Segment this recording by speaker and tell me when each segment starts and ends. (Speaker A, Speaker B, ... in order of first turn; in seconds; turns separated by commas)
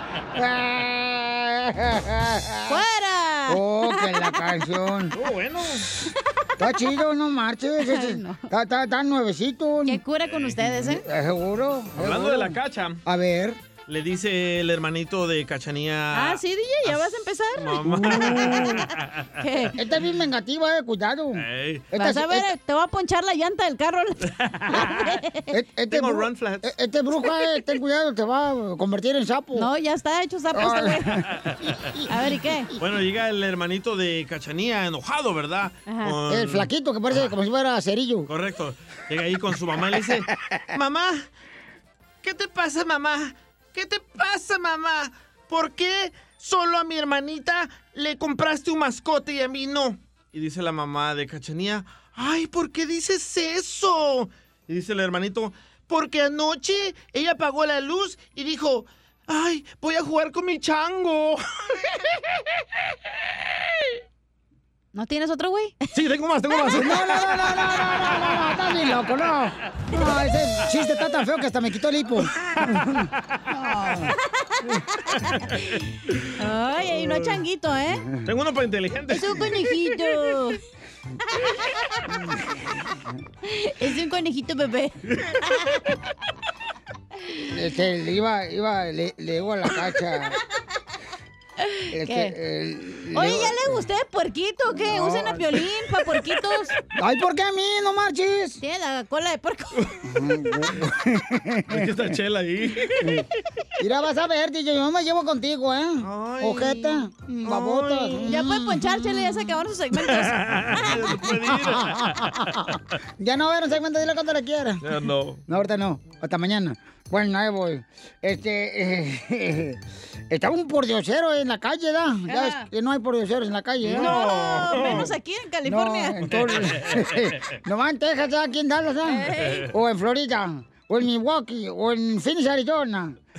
Speaker A: 0.3-2.8, Speaker B: 2.7-4.3, Speaker A: 3.5-5.2, Speaker C: 5.1-5.9, Speaker A: 6.6-10.0, Speaker B: 7.8-8.5, Speaker B: 9.9-11.0, Speaker C: 10.3-10.7, Speaker A: 10.8-13.6, Speaker C: 12.0-13.0, Speaker C: 13.9-17.1, Speaker B: 16.1-18.7, Speaker C: 17.6-19.3, Speaker A: 18.0-18.7, Speaker B: 19.4-19.7, Speaker A: 19.8-22.5, Speaker C: 21.4-21.9, Speaker B: 22.0-24.2, Speaker C: 24.4-24.9, Speaker B: 24.8-25.4, Speaker A: 25.5-29.7, Speaker C: 25.9-26.7, Speaker B: 29.6-31.1, Speaker A: 30.6-31.2, Speaker B: 32.1-32.7, Speaker C: 32.8-37.3, Speaker B: 35.9-36.1, Speaker A: 36.3-38.3, Speaker C: 38.3-41.3, Speaker C: 42.2-61.4, Speaker B: 64.9-65.8, Speaker C: 65.9-67.2, Speaker B: 66.5-67.0, Speaker A: 66.7-72.3, Speaker A: 73.5-74.1, Speaker B: 76.4-78.0, Speaker C: 78.3-79.5, Speaker B: 79.1-80.6, Speaker B: 83.5-85.0, Speaker A: 87.5-90.4, Speaker B: 91.6-92.3, Speaker A: 91.9-93.8, Speaker B: 93.1-96.7, Speaker A: 94.9-95.4, Speaker A: 97.0-98.6, Speaker B: 98.6-99.9, Speaker A: 100.1-101.9, Speaker C: 101.7-103.2, Speaker A: 103.8-109.5, Speaker C: 106.0-108.4, Speaker B: 108.3-110.8, Speaker C: 110.1-112.5, Speaker A: 111.5-114.8, Speaker C: 114.8-115.4, Speaker A: 115.5-119.8, Speaker A: 120.3-124.2, Speaker B: 122.3-122.7, Speaker C: 123.8-125.1, Speaker B: 124.0-126.3, Speaker A: 125.7-133.2, Speaker C: 126.3-127.1, Speaker B: 129.1-129.7